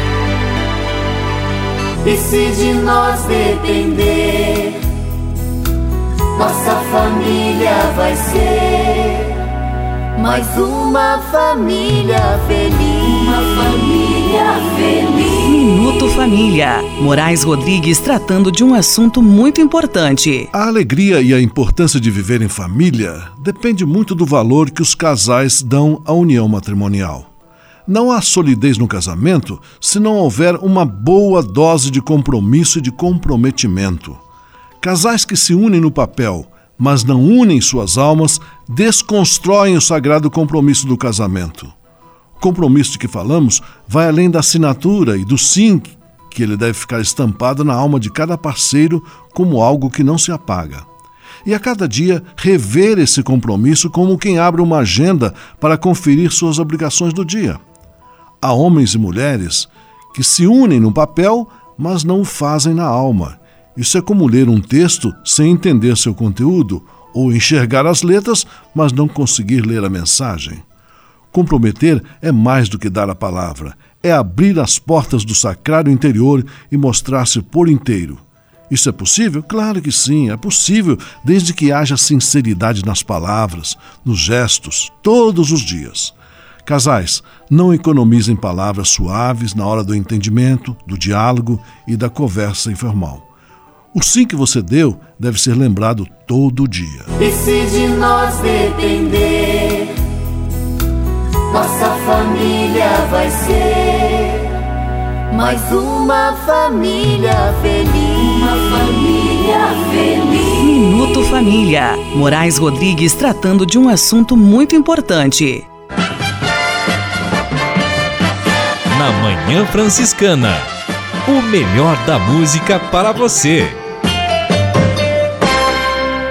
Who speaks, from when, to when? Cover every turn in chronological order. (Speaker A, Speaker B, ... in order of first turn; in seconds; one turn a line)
Speaker A: 2.1-4.7
Speaker A: 6.4-9.2
Speaker A: 10.2-14.1
Speaker B: 15.6-20.5
Speaker C: 20.5-27.3
Speaker C: 27.9-34.2
Speaker C: 34.8-41.7
Speaker C: 42.4-50.9
Speaker C: 51.4-57.6
Speaker C: 58.4-70.6
Speaker C: 71.3-93.2
Speaker C: 93.9-97.1
Speaker A: 97.2-99.9
Speaker A: 101.5-104.3
Speaker A: 105.3-108.4
Speaker B: 110.7-115.6
Speaker D: 118.9-120.7
Speaker D: 121.2-123.8